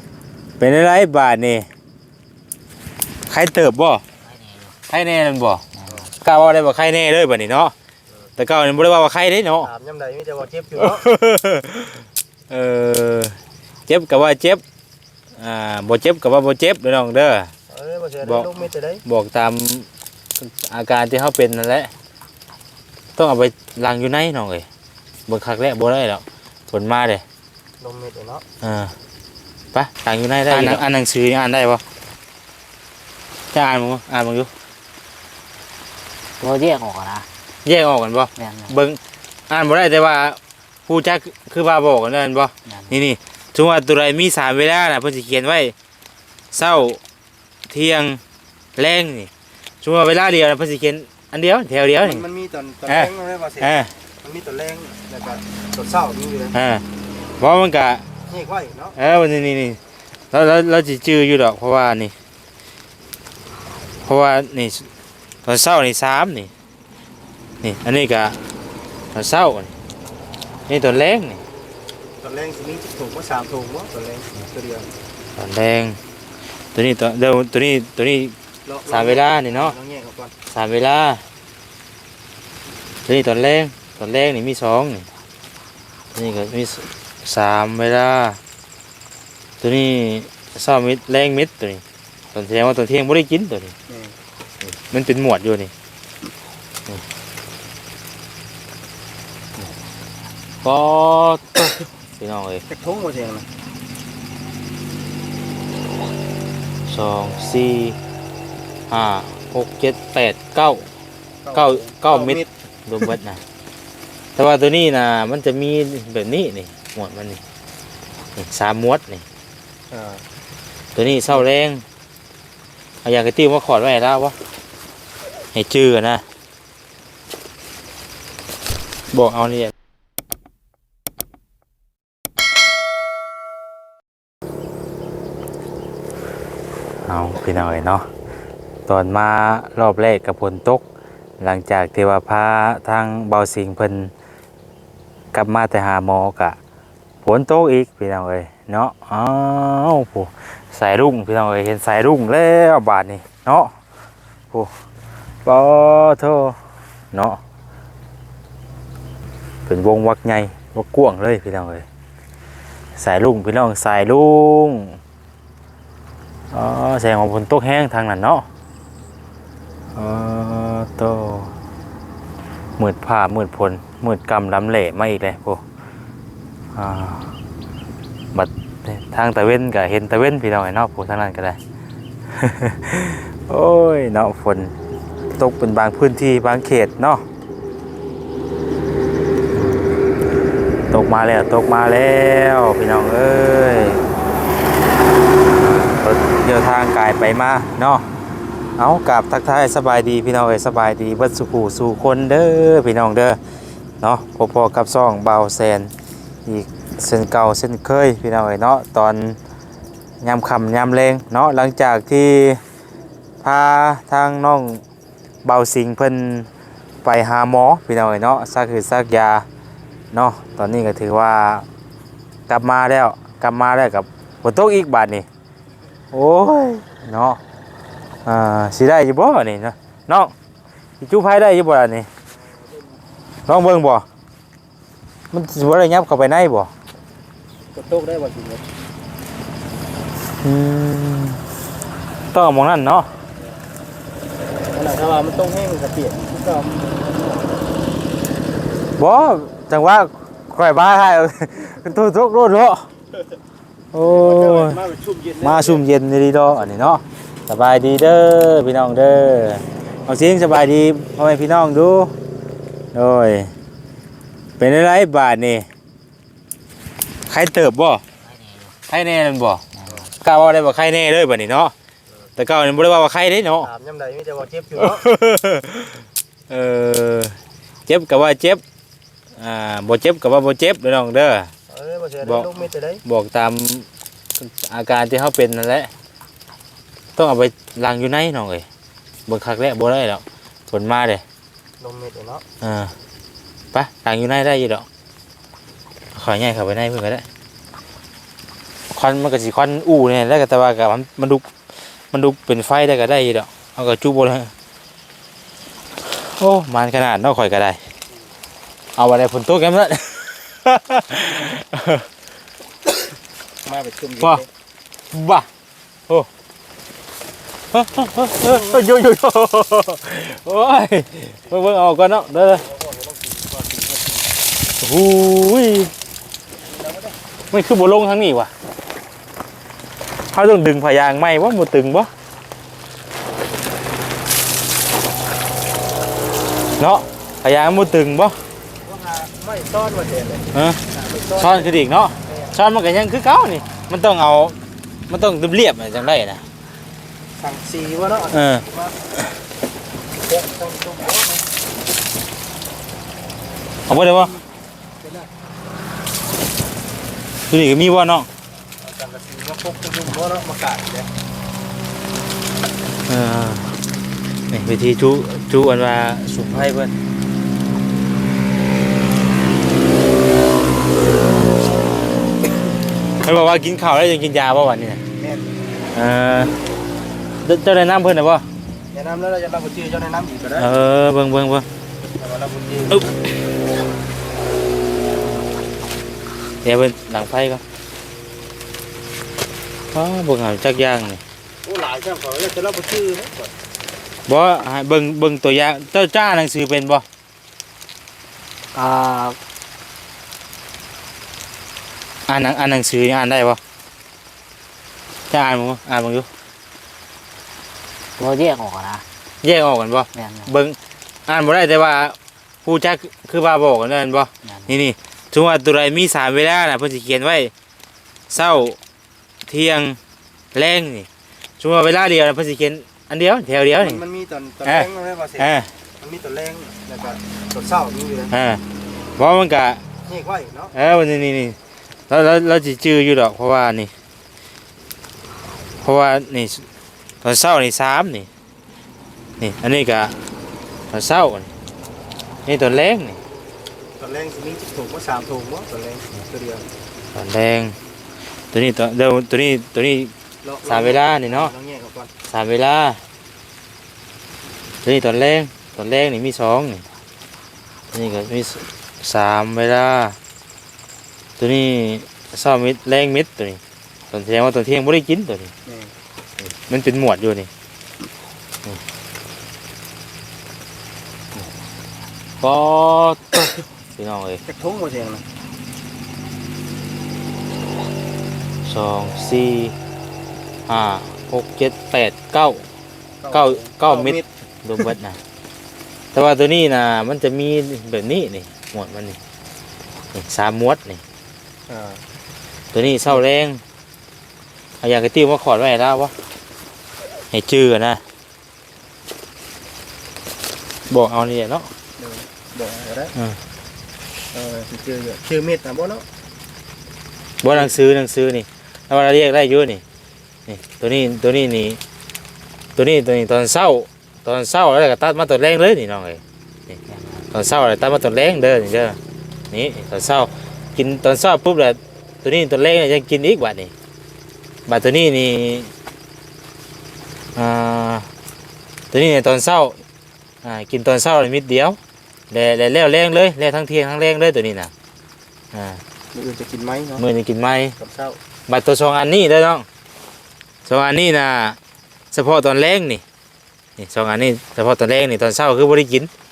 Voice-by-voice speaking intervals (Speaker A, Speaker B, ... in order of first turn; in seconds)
Speaker A: 0.6-1.7, 3.3-4.0, 4.9-5.6, 6.2-7.7, 8.4-9.7, 10.8-14.6, 15.4-17.5, 18.2-18.5, 19.0-21.9, 23.1-24.7, 25.3-27.2, 28.6-28.9, 29.7-31.8, 33.5-34.5, 37.6-39.0, 39.5-45.7, 46.5-47.0, 47.7-48.2, 48.8-49.3, 49.8-52.2, 52.9-53.9, 56.5-56.9, 57.4-58.0, 59.0-59.8, 60.3-62.1, 64.0-64.9, 65.4-66.5, 67.6-68.4, 69.1-69.7, 70.7-71.4, 75.3-76.0, 76.7-78.3, 78.9-79.7, 80.5-81.2, 83.0-85.1, 86.1-88.4, 89.6-91.8, 92.3-93.7, 94.6-95.7, 100.6-102.6, 106.9-108.0, 108.9-110.9, 111.5-113.4, 114.3-117.4, 118.3-119.2, 120.9-121.8, 123.0-124.3, 125.5-126.2, 129.1-129.7, 137.1-138.1, 138.9-140.8, 141.4-144.1, 145.3-146.6, 147.2-153.7, 155.4-156.6, 157.1-157.4, 159.7-161.8, 162.9-165.0, 166.5-168.5, 169.9-171.5, 172.8-175.6, 176.7-177.3, 178.3-181.6, 182.3-184.8, 185.3-187.2, 189.5-189.8, 190.9-194.0, 195.7-198.1, 198.8-203.4, 204.0-205.9, 206.4-209.4, 210.2-212.6, 213.4-214.8, 215.4-216.5, 217.0-219.4, 220.1-221.7, 222.5-225.2, 226.1-227.4, 228.2-230.3, 231.0-232.1, 233.5-234.0, 235.3-236.7, 240.4-241.4, 242.3-243.1, 249.0-252.9, 253.9-254.8, 255.4-262.1, 262.9-263.5, 264.6-265.7, 267.3-268.0, 268.9-269.6, 270.2-271.7, 272.4-273.7, 274.8-278.6, 279.4-281.5, 282.2-282.5, 283.0-283.9, 284.4-285.9, 287.1-288.6, 289.3-291.2, 292.6-292.9, 293.7-294.9, 296.1-297.2, 298.9-301.5, 302.1-304.5, 306.0-307.8, 308.9-312.1, 315.1-315.5, 317.7-322.6, 324.8-325.9, 327.5-328.5, 330.3-332.1, 336.8-338.4, 340.5-340.8, 341.4-344.6, 345.1-346.4, 348.3-348.6, 353.9-354.4, 357.5-358.3, 363.1-363.7, 364.5-366.9, 373.2-375.0, 375.9-376.5, 377.4-378.4, 380.6-381.7, 386.6-387.6, 389.9-391.2, 394.3-397.0, 402.3-403.6, 405.3-406.3, 409.4-417.5, 418.3-418.8, 419.5-420.0, 420.5-421.1, 421.6-424.0, 424.6-425.7, 428.3-428.6, 429.2-429.8, 430.7-431.6, 432.1-433.9, 435.8-436.7, 437.2-438.3, 439.4-440.1, 440.9-441.5, 442.4-443.2, 447.1-447.8, 448.5-450.1, 450.6-451.5, 452.3-453.0, 454.8-456.9, 457.9-460.2, 461.4-465.5, 466.4-467.5, 472.4-474.4, 478.6-479.7, 480.7-482.6, 483.3-485.2, 486.1-489.2, 490.1-491.0, 492.7-493.6, 494.8-496.1, 497.3-498.0, 500.9-501.7, 507.4-509.8, 510.5-511.8, 512.8-516.8, 517.3-519.0, 519.5-523.7, 524.7-525.7, 527.4-528.1, 528.9-529.8, 530.4-531.8, 532.3-534.7, 535.5-535.8, 537.0-537.8, 538.5-539.7, 540.6-541.6, 542.1-543.0, 543.8-546.1
Speaker B: 4.2-4.8, 5.7-6.1, 30.5-30.8, 36.4-37.3, 38.4-38.8, 42.6-43.0, 268.2-268.8, 269.7-270.1, 398.7-399.4, 408.2-409.0, 410.1-410.6, 414.4-414.8, 516.9-517.2
Speaker C: 9.6-11.1, 17.7-19.0, 27.8-28.4, 52.0-56.5, 58.3-59.0, 72.2-74.9, 78.7-80.3, 93.9-94.2, 102.7-103.5, 111.4-112.5, 119.9-120.2, 237.7-238.7, 244.7-247.7, 254.0-255.8, 273.6-275.1, 281.7-283.0, 291.8-292.4, 313.6-314.5, 318.4-318.8, 322.3-324.4, 326.5-327.2, 338.8-342.5, 347.4-349.0, 350.1-351.5, 355.0-355.3, 358.8-361.1, 375.2-375.5, 378.9-380.7, 382.2-383.2, 391.6-393.5, 423.8-428.3, 430.1-430.7, 444.0-446.7, 450.4-452.1, 465.6-465.9, 474.4-475.2, 483.2-484.3, 491.7-492.0, 502.0-503.1, 504.3-506.1, 536.1-537.0, 537.8-538.2